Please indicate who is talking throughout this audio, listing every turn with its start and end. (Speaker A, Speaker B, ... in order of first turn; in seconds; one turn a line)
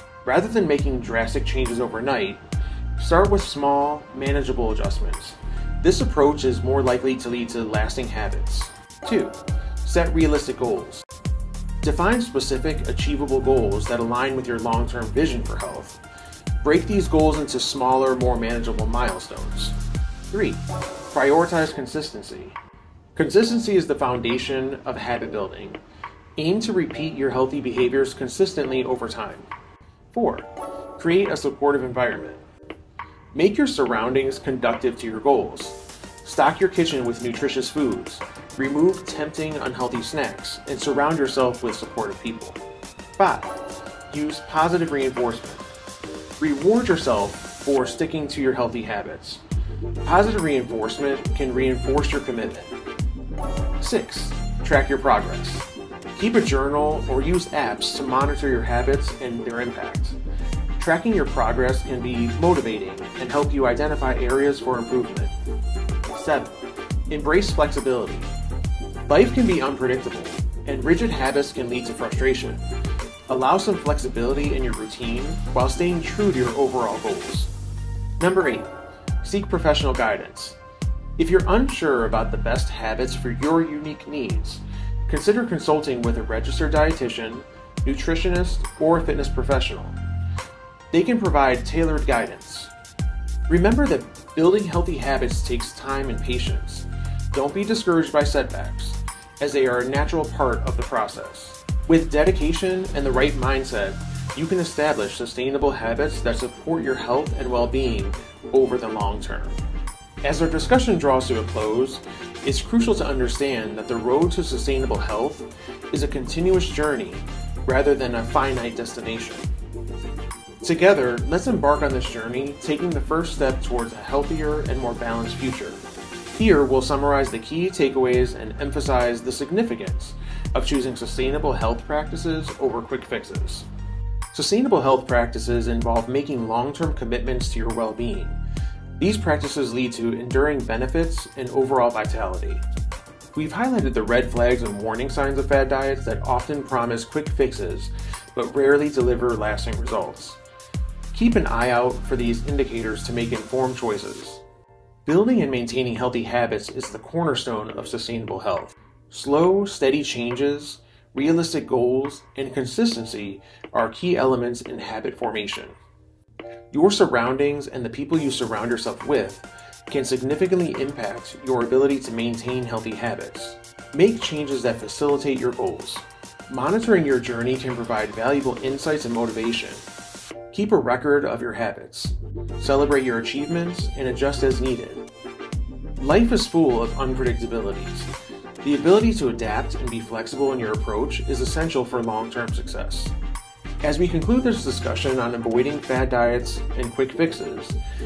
Speaker A: 0.2-2.4
Speaker A: 3.0-11.1
Speaker A: 11.8-16.0
Speaker A: 16.6-19.8
Speaker A: 20.3-22.6
Speaker A: 23.1-25.8
Speaker A: 26.4-29.5
Speaker A: 30.1-32.4
Speaker A: 33.3-42.6
Speaker A: 43.2-43.5
Speaker A: 44.1-45.6
Speaker A: 46.4-49.4
Speaker A: 50.0-52.7
Speaker A: 53.8-60.2
Speaker A: 60.8-65.3
Speaker A: 66.1-66.6
Speaker A: 67.1-68.3
Speaker A: 69.1-72.6
Speaker A: 73.3-77.5
Speaker A: 78.2-78.7
Speaker A: 79.2-80.6
Speaker A: 81.2-90.0
Speaker A: 90.9-92.7
Speaker A: 93.5-109.6
Speaker A: 110.2-119.5
Speaker A: 120.6-133.7
Speaker A: 134.3-138.4
Speaker A: 139.0-142.6
Speaker A: 143.3-150.4
Speaker A: 151.1-154.4
Speaker A: 155.1-165.8
Speaker A: 166.7-179.8
Speaker A: 180.5-185.1
Speaker A: 186.0-188.1
Speaker A: 188.6-193.1
Speaker A: 193.8-197.8